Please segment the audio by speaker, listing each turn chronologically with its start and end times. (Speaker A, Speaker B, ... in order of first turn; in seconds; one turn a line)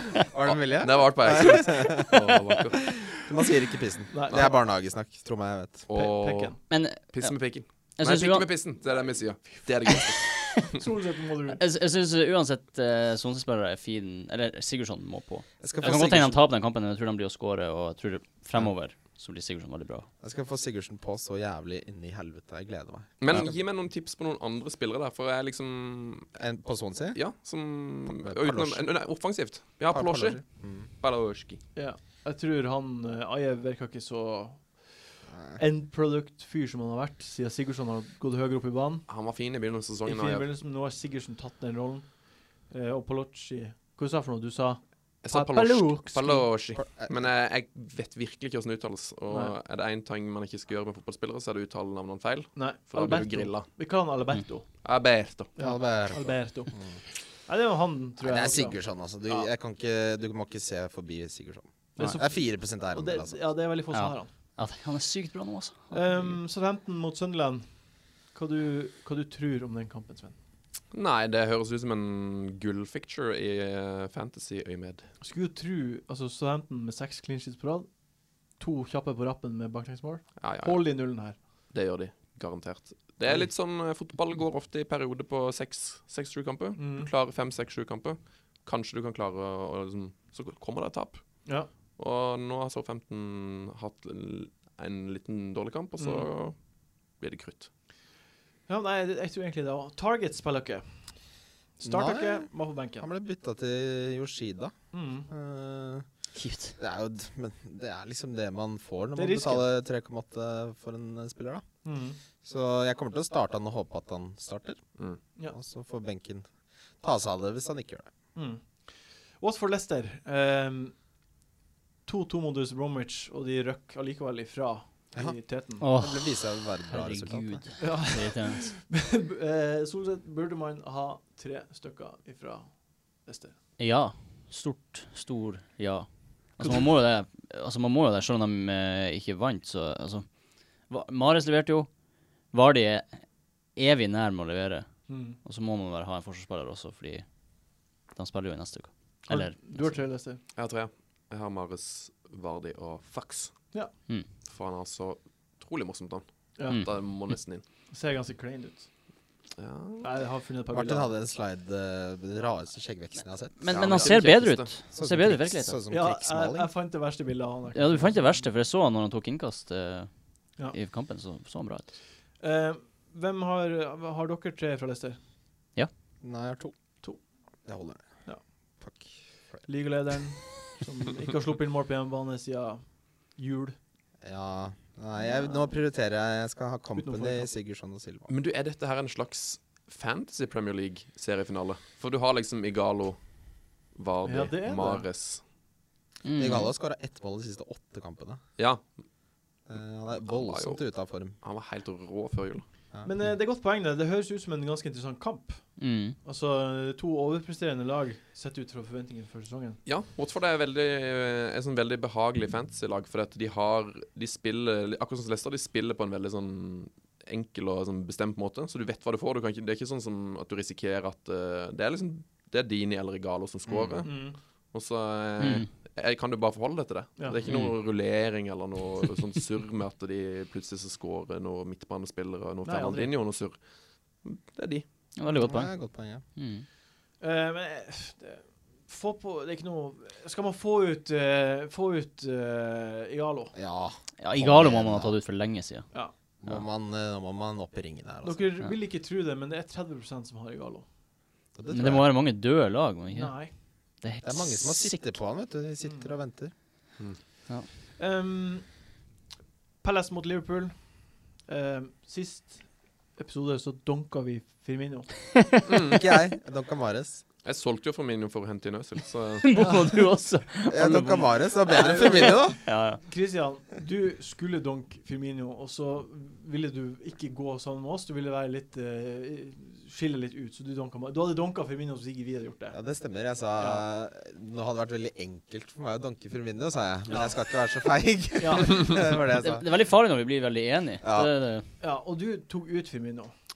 Speaker A: 0.2-2.2
Speaker B: 0.5-3.0
Speaker A: 2.9-5.9
Speaker C: 4.1-4.5
Speaker B: 5.9-10.6
Speaker C: 5.9-6.6
Speaker D: 6.7-7.3
Speaker D: 8.0-8.5
Speaker C: 10.7-11.6
Speaker D: 11.6-20.1
Speaker A: 15.6-16.4
Speaker A: 20.2-23.6
Speaker B: 23.2-26.3
Speaker A: 26.4-27.2
Speaker B: 27.1-31.6
Speaker A: 28.1-28.9
Speaker A: 29.9-30.9
Speaker C: 31.7-34.9
Speaker A: 35.3-35.6
Speaker C: 35.5-39.1
Speaker B: 39.1-40.5
Speaker C: 40.0-46.5
Speaker B: 45.2-53.7
Speaker A: 46.8-47.1
Speaker C: 52.5-54.7
Speaker B: 54.8-55.5
Speaker C: 55.6-56.8
Speaker A: 55.6-57.0
Speaker C: 57.4-59.5
Speaker A: 58.2-63.4
Speaker C: 62.0-64.3
Speaker D: 63.9-66.3
Speaker C: 65.9-67.7
Speaker C: 68.3-70.3
Speaker B: 70.9-75.0
Speaker C: 75.2-77.9
Speaker C: 78.5-81.4
Speaker B: 80.4-81.0
Speaker B: 81.7-96.6
Speaker C: 86.8-87.1
Speaker C: 96.0-96.3
Speaker B: 97.1-97.7
Speaker C: 98.7-101.1
Speaker C: 101.8-103.1
Speaker A: 101.8-106.0
Speaker C: 104.9-105.3
Speaker D: 106.3-106.8
Speaker A: 106.8-111.7
Speaker C: 109.1-109.7
Speaker C: 111.8-112.2
Speaker A: 112.4-114.8
Speaker A: 115.5-116.5
Speaker A: 117.0-118.1
Speaker C: 118.3-121.0
Speaker C: 122.0-125.8
Speaker A: 125.1-127.6
Speaker D: 125.8-128.7
Speaker C: 127.8-133.5
Speaker D: 133.8-140.3
Speaker C: 136.6-136.9
Speaker D: 140.9-141.9
Speaker D: 142.5-147.2
Speaker C: 145.1-145.4
Speaker D: 148.1-150.0
Speaker C: 149.3-150.4
Speaker B: 150.6-157.6
Speaker C: 156.6-156.9
Speaker C: 157.9-158.9
Speaker B: 159.6-160.1
Speaker C: 160.0-161.1
Speaker A: 160.7-166.7
Speaker D: 163.6-165.8
Speaker B: 163.7-164.7
Speaker C: 165.9-168.3
Speaker D: 167.7-171.9
Speaker C: 172.4-175.2
Speaker A: 176.2-176.7
Speaker A: 177.6-178.2
Speaker A: 178.8-179.1
Speaker C: 179.7-183.8
Speaker A: 184.2-188.3
Speaker C: 187.0-187.5
Speaker B: 188.3-193.2
Speaker B: 193.9-195.4
Speaker C: 194.2-195.1
Speaker D: 196.2-196.7
Speaker A: 196.3-198.4
Speaker B: 198.6-198.8
Speaker A: 199.7-201.3
Speaker B: 200.3-200.8
Speaker B: 201.4-202.6
Speaker C: 203.0-209.8
Speaker D: 205.8-206.2
Speaker B: 209.8-234.9
Speaker A: 223.7-224.0
Speaker C: 224.0-224.4
Speaker D: 225.4-225.7
Speaker D: 227.5-227.8
Speaker C: 232.6-233.1
Speaker D: 235.2-235.8
Speaker A: 235.3-236.2
Speaker D: 236.3-236.7
Speaker C: 237.2-243.5
Speaker A: 243.5-245.2
Speaker D: 244.2-245.9
Speaker A: 246.4-248.5
Speaker C: 248.2-250.9
Speaker A: 251.5-252.1
Speaker D: 251.7-253.4
Speaker C: 253.1-253.5
Speaker D: 254.0-255.1
Speaker A: 254.2-256.5
Speaker C: 258.0-258.8
Speaker C: 259.8-265.4
Speaker B: 265.7-266.0
Speaker A: 265.9-267.2
Speaker B: 267.4-269.5
Speaker D: 269.4-273.0
Speaker C: 269.6-269.8
Speaker A: 270.7-272.6
Speaker C: 271.7-282.8
Speaker A: 282.7-289.7
Speaker C: 287.1-287.4
Speaker C: 288.4-288.9
Speaker D: 289.3-291.7
Speaker A: 291.0-291.3
Speaker C: 291.8-293.3